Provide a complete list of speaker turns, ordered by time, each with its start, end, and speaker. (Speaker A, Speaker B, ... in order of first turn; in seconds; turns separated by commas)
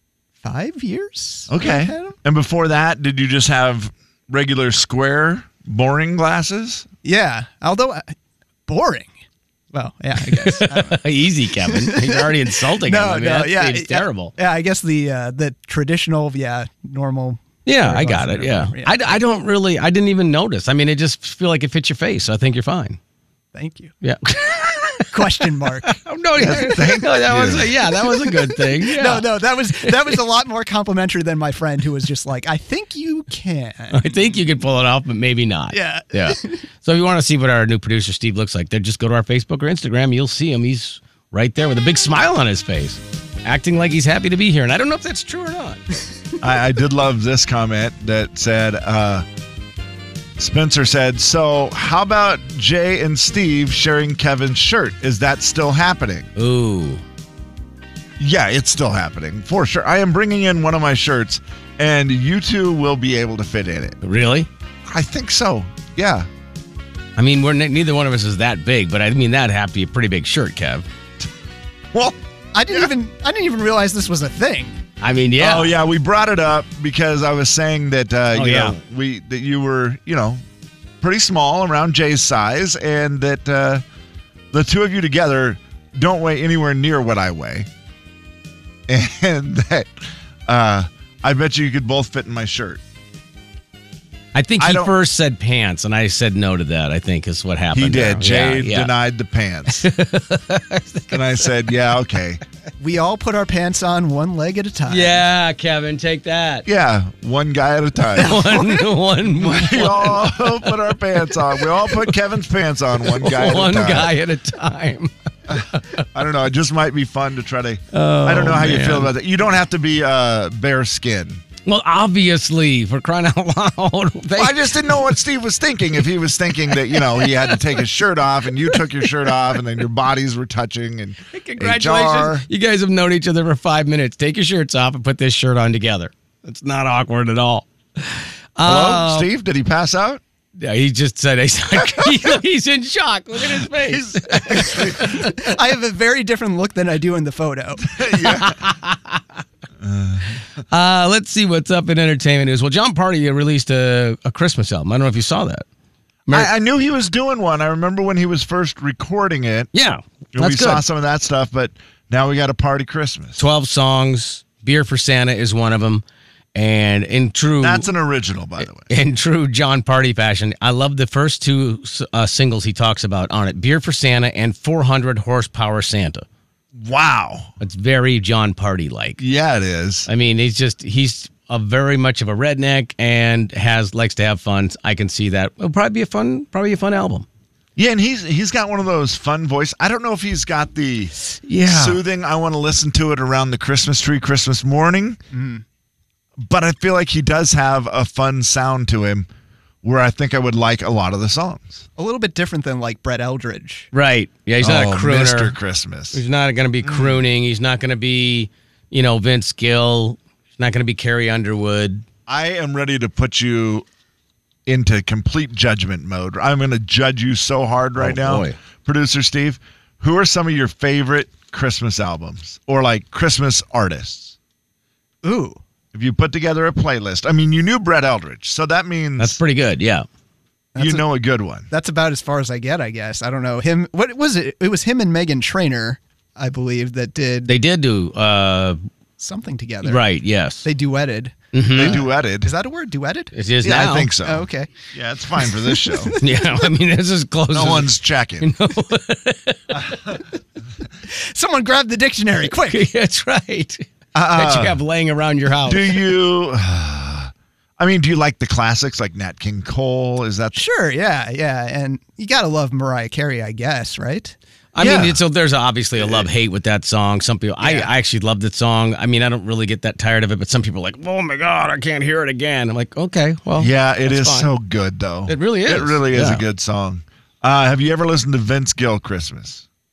Speaker A: 0.4-2.1, Speaker B: 1.5-6.9, Speaker A: 7.0-8.1, Speaker A: 8.7-9.1, Speaker A: 9.7-11.0, Speaker C: 10.3-14.3, Speaker A: 11.6-19.1, Speaker C: 17.6-23.0, Speaker A: 23.5-23.9, Speaker C: 24.0-25.1, Speaker A: 25.1-26.0, Speaker C: 25.9-29.3, Speaker B: 26.4-27.8, Speaker A: 28.7-34.1, Speaker C: 29.8-30.1, Speaker C: 33.9-45.8, Speaker A: 35.7-36.6, Speaker B: 46.4-49.2, Speaker B: 50.4-56.3, Speaker C: 56.4-57.0, Speaker B: 58.2-64.0, Speaker C: 64.0-64.5, Speaker B: 64.9-66.3, Speaker C: 67.2-70.8, Speaker A: 72.5-74.8, Speaker C: 75.0-75.7, Speaker B: 75.4-80.4, Speaker C: 78.3-78.8, Speaker B: 81.0-83.8, Speaker B: 84.5-87.7, Speaker B: 88.9-89.9, Speaker B: 90.5-92.8, Speaker C: 94.3-98.9, Speaker B: 94.6-95.0, Speaker B: 97.7-99.9, Speaker C: 99.8-101.5, Speaker B: 101.1-102.4, Speaker A: 102.8-105.2, Speaker C: 104.9-106.7, Speaker B: 106.7-108.7, Speaker C: 108.2-110.9, Speaker B: 109.3-114.1, Speaker C: 111.6-112.0, Speaker C: 113.1-115.8, Speaker B: 115.5-121.4, Speaker C: 117.9-119.1, Speaker C: 121.7-125.2, Speaker B: 124.4-132.5, Speaker C: 127.0-127.5, Speaker C: 131.3-139.3, Speaker B: 138.6-140.2, Speaker C: 140.6-145.3, Speaker B: 141.8-142.2, Speaker B: 143.4-145.3, Speaker A: 144.6-147.9, Speaker B: 147.9-148.6, Speaker C: 148.2-149.2, Speaker B: 149.8-150.4, Speaker C: 150.7-155.7, Speaker B: 156.3-159.7, Speaker C: 159.7-160.8, Speaker B: 160.3-163.4, Speaker C: 163.4-166.0, Speaker C: 166.6-167.9, Speaker B: 167.6-168.9, Speaker C: 168.8-176.3, Speaker B: 176.8-177.5, Speaker C: 177.6-179.2, Speaker B: 179.2-180.1, Speaker C: 180.1-187.3, Speaker B: 187.8-195.2, Speaker C: 191.5-192.0, Speaker A: 195.3-195.6, Speaker B: 196.4-199.3, Speaker B: 199.8-201.8, Speaker A: 202.0-203.9, Speaker C: 203.9-205.6, Speaker B: 204.6-206.2, Speaker C: 206.1-212.1, Speaker B: 206.8-207.2, Speaker B: 212.3-213.9, Speaker B: 214.7-224.4, Speaker C: 218.0-218.6, Speaker A: 225.2-225.6, Speaker B: 225.9-229.4, Speaker C: 229.2-230.1, Speaker A: 230.8-231.1, Speaker B: 230.8-231.7, Speaker A: 231.7-237.5, Speaker C: 237.5-238.8, Speaker A: 239.2-240.1, Speaker C: 239.8-240.7, Speaker A: 240.6-243.3, Speaker C: 241.5-242.0, Speaker B: 241.7-242.5, Speaker C: 243.3-244.1, Speaker B: 243.6-246.2, Speaker A: 244.2-244.8, Speaker A: 245.4-246.5, Speaker C: 246.2-249.7, Speaker B: 247.5-248.5, Speaker A: 251.1-252.9, Speaker C: 252.5-256.1, Speaker B: 254.1-254.8, Speaker B: 255.7-260.6, Speaker A: 260.6-264.4, Speaker C: 264.7-274.5, Speaker B: 264.8-265.2, Speaker B: 266.0-266.3, Speaker A: 267.6-267.9, Speaker B: 273.6-279.6, Speaker C: 275.3-276.4